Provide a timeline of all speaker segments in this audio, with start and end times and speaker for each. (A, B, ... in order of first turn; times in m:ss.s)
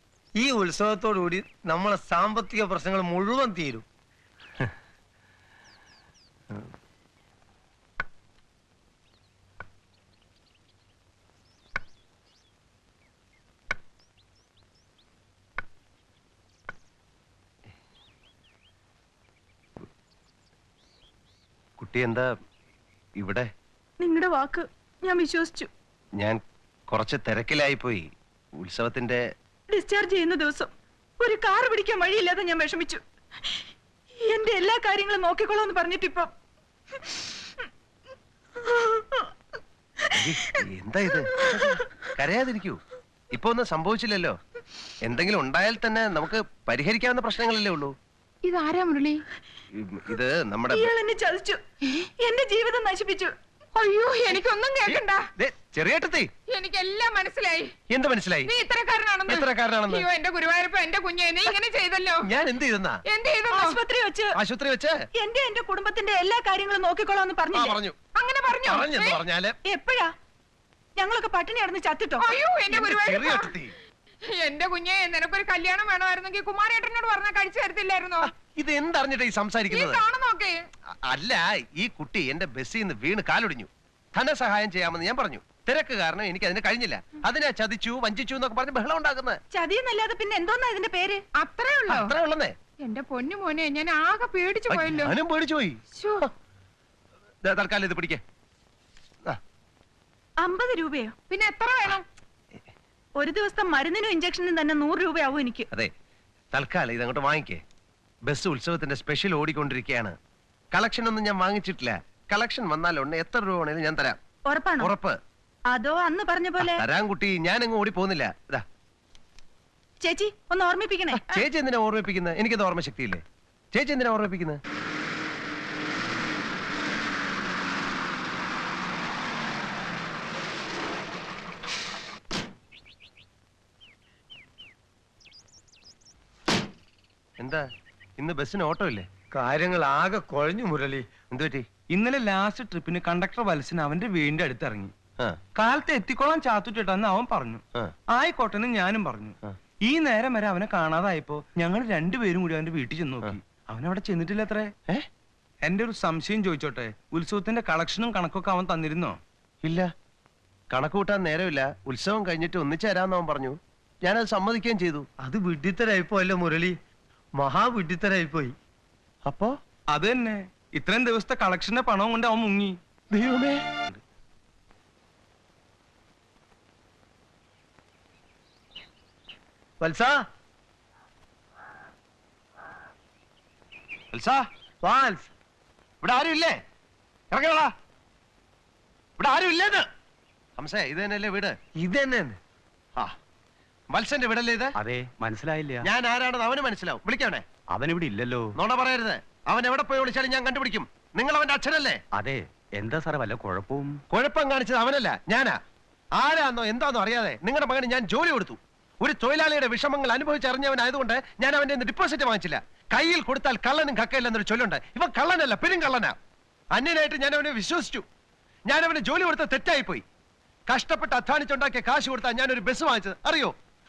0:00.4-0:03.8 A
0:21.8-0:22.3 B
0:23.2-0:23.5 B
0:24.0-0:25.7 C
0:26.9-0:28.0 B
0:28.6-0:29.2 B
0:29.7-0:33.0 C
0:34.3-0:36.3 C
0:38.8-0:39.1 C
0:40.1-0:42.8 B
0:43.3-0:44.4 B
0:45.0-0:47.9 B
0:48.4-0:49.2 D
0:49.8-0:50.9 B
0:50.7-0:51.6 C
0:52.2-0:53.3 C
0:53.8-0:55.2 D
0:54.9-0:56.3 B
0:56.5-0:57.7 D
0:57.9-0:58.5 B
0:58.5-1:02.3 D
0:59.3-1:00.1 B
1:02.2-1:03.0 B
1:03.1-1:03.8 D
1:03.5-1:04.3 C
1:04.4-1:05.0 B
1:05.2-1:07.8 C
1:07.5-1:08.0 B
1:08.2-1:09.2 D
1:08.6-1:09.6 B
1:09.7-1:10.1 C
1:11.0-1:12.3 C
1:12.2-1:13.5 D
1:12.7-1:13.7 B
1:14.3-1:18.3 D
1:18.2-1:20.0 B
1:19.7-1:20.6 D
1:21.1-1:29.4 B
1:29.5-1:31.2 C
1:31.4-1:32.1 D
1:31.9-1:32.5 B
1:32.8-1:35.2 D
1:34.7-1:36.3 B
1:36.0-1:36.2 D
1:37.4-1:38.2 B
1:40.4-1:41.2 C
1:41.3-1:42.0 D
1:43.2-1:45.7 C
1:46.5-1:47.6 B
1:48.3-1:50.1 B
1:50.7-1:54.2 B
1:54.5-1:54.9 C
1:54.8-1:55.2 B
1:55.7-1:56.8 C
1:56.6-1:58.6 B
2:00.0-2:01.4 C
2:01.1-2:03.2 B
2:03.7-2:04.6 B
2:17.4-2:17.6 B
2:18.2-2:19.1 B
2:19.3-2:21.1 A
2:21.3-2:21.6 B
2:21.9-2:24.9 E
2:25.6-2:34.7 E
2:35.6-2:39.2 E
2:40.7-2:45.1 B
2:45.2-2:46.7 A
2:47.4-2:48.5 A
2:49.3-2:49.5 B
2:49.9-2:52.8 E
2:53.1-2:53.8 B
2:59.8-3:00.2 A
3:04.1-3:04.4 B
3:04.8-3:05.3 A
3:06.0-3:06.6 B
3:07.3-3:07.7 B
3:09.2-3:09.8 B
3:10.6-3:11.6 B
3:11.8-3:12.4 A
3:13.9-3:14.8 B
3:14.8-3:15.8 F
3:15.8-3:17.4 B
3:17.7-3:18.5 F
3:18.5-3:22.0 B
3:22.2-3:24.0 F
3:24.1-3:25.6 B
3:26.2-3:36.2 B
3:36.7-3:38.0 B
3:38.7-3:40.0 B
3:40.7-3:43.5 B